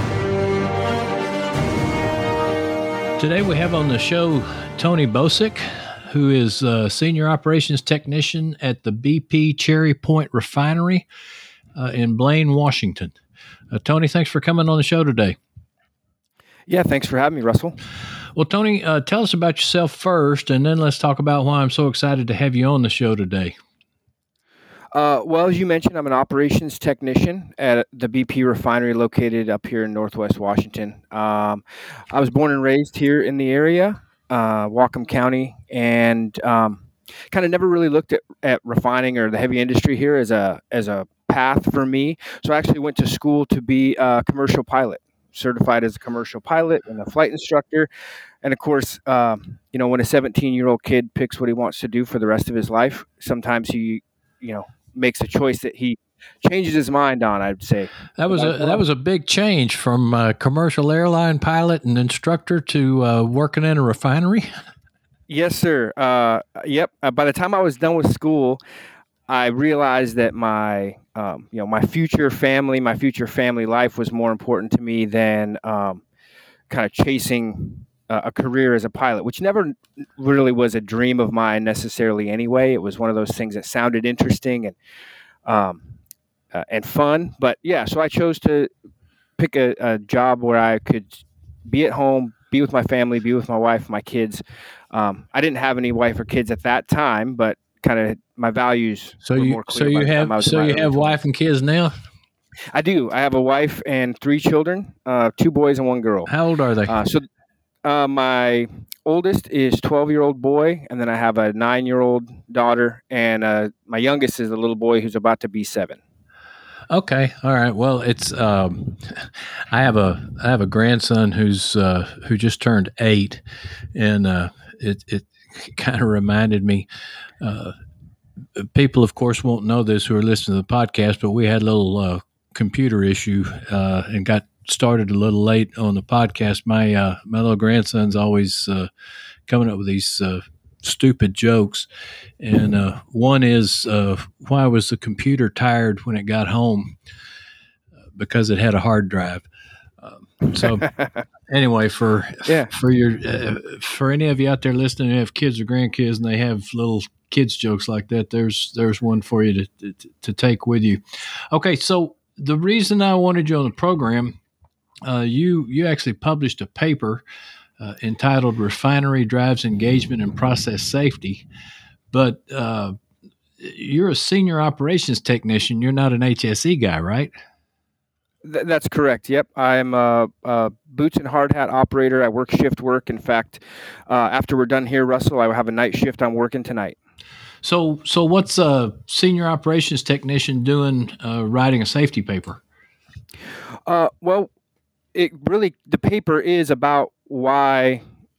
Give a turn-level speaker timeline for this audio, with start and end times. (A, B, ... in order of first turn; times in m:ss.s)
0:03.2-0:11.0 A
0:11.7-0:13.1 A
0:13.7-0:15.4 A
0:16.7-0:17.8 B
0:18.3-0:23.5 A
0:24.9-0:47.9 B
0:48.4-0:58.8 B
0:58.2-1:04.5 A
1:05.3-1:08.6 B
1:09.3-1:16.0 B
1:16.7-1:24.7 B
1:25.4-1:25.8 B
1:26.5-1:28.7 B
1:29.4-1:41.2 B
1:39.2-1:41.9 A
1:42.7-1:46.3 B
1:46.2-1:47.0 A
1:46.9-1:47.3 B
1:47.8-1:56.0 B
1:56.9-2:06.8 A
2:07.4-2:07.7 A
2:08.6-2:18.9 A
2:19.5-2:21.9 A
2:22.4-2:27.0 A
2:28.1-2:29.4 A
2:30.0-2:30.9 A
2:31.5-2:44.4 A
2:32.4-2:32.7 B
2:45.0-2:47.2 A
2:47.8-2:51.4 A
2:52.1-2:52.9 A
2:53.6-2:57.3 A
2:58.4-3:06.9 B
3:07.6-3:12.6 A
3:13.9-3:14.5 B
3:15.1-3:18.0 B